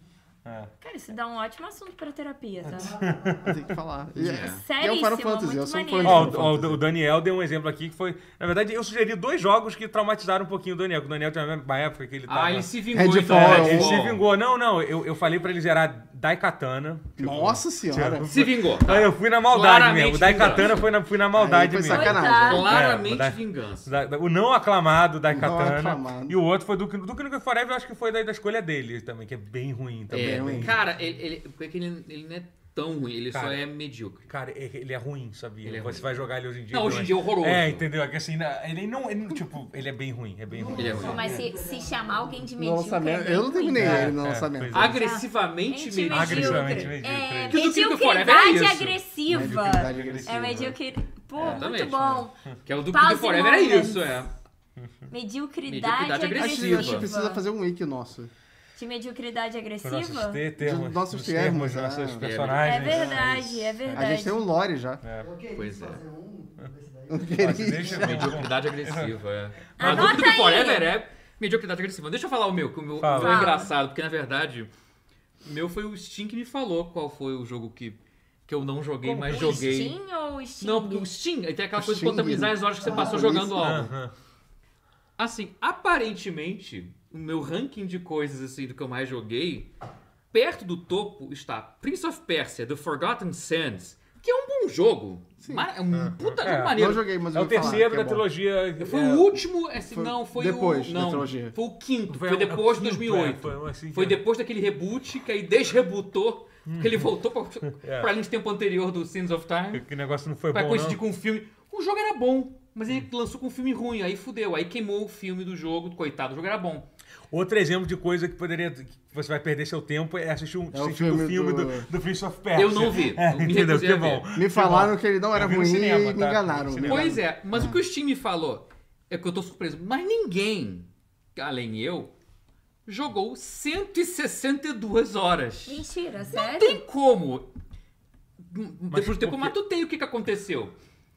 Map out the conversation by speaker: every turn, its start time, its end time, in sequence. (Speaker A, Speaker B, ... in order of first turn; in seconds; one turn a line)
Speaker A: 0.4-0.7
Speaker B: 0.8-2.9
Speaker A: 2.6-4.3
Speaker C: 2.6-3.6
Speaker D: 3.4-6.8
Speaker E: 4.2-4.6
Speaker B: 4.3-6.4
Speaker A: 6.0-30.8
Speaker E: 12.3-14.2
Speaker D: 12.9-14.1
Speaker D: 17.2-18.3
Speaker E: 18.2-20.9
Speaker D: 21.3-22.8
Speaker B: 21.9-22.8
Speaker E: 22.3-23.9
Speaker D: 25.3-26.4
Speaker D: 30.1-30.8
Speaker E: 30.1-34.3
Speaker A: 33.3-33.6
Speaker A: 34.3-41.5
Speaker E: 35.6-36.1
Speaker E: 36.7-37.9
Speaker C: 40.5-42.5
Speaker E: 40.7-41.2
Speaker B: 41.0-44.2
Speaker D: 42.5-44.9
Speaker A: 43.7-45.0
Speaker E: 44.7-47.0
Speaker B: 44.7-52.4
Speaker A: 46.1-47.6
Speaker E: 47.5-49.0
Speaker D: 49.3-50.7
Speaker A: 49.3-50.8
Speaker A: 51.4-51.7
Speaker E: 51.4-54.3
Speaker B: 52.9-54.0
Speaker A: 54.8-55.1
Speaker B: 55.1-57.4
Speaker E: 55.7-57.1
Speaker D: 56.4-58.3
Speaker B: 58.8-60.4
Speaker A: 59.8-64.1
Speaker D: 60.6-62.3
Speaker E: 62.2-63.0
Speaker B: 62.5-64.4
Speaker D: 63.9-65.0
Speaker A: 65.0-65.3
Speaker C: 65.2-68.1
Speaker E: 65.5-66.0
Speaker D: 67.1-68.4
Speaker A: 67.3-69.2
Speaker E: 67.9-74.7
Speaker A: 69.8-70.3
Speaker B: 69.8-70.9
Speaker A: 73.0-73.6
Speaker B: 73.1-73.7
Speaker E: 75.4-80.0
Speaker A: 79.0-79.8
Speaker B: 79.3-81.1
Speaker E: 80.6-83.9
Speaker D: 81.8-83.8
Speaker C: 82.8-83.3
Speaker A: 83.6-84.1
Speaker E: 85.2-89.7
Speaker E: 90.3-97.8
Speaker D: 95.4-98.2
Speaker A: 96.2-99.4
Speaker E: 98.8-109.8
Speaker D: 99.9-101.5
Speaker A: 102.1-104.2
Speaker A: 106.7-107.1
Speaker A: 107.7-108.1
Speaker A: 109.7-111.0
Speaker E: 110.5-116.9
Speaker A: 117.3-127.2
Speaker D: 120.7-121.9
Speaker E: 122.5-124.2
Speaker D: 124.3-127.8
Speaker E: 126.8-132.1
Speaker E: 132.9-137.5
Speaker B: 135.7-136.8
Speaker E: 138.4-140.8
Speaker A: 138.9-139.6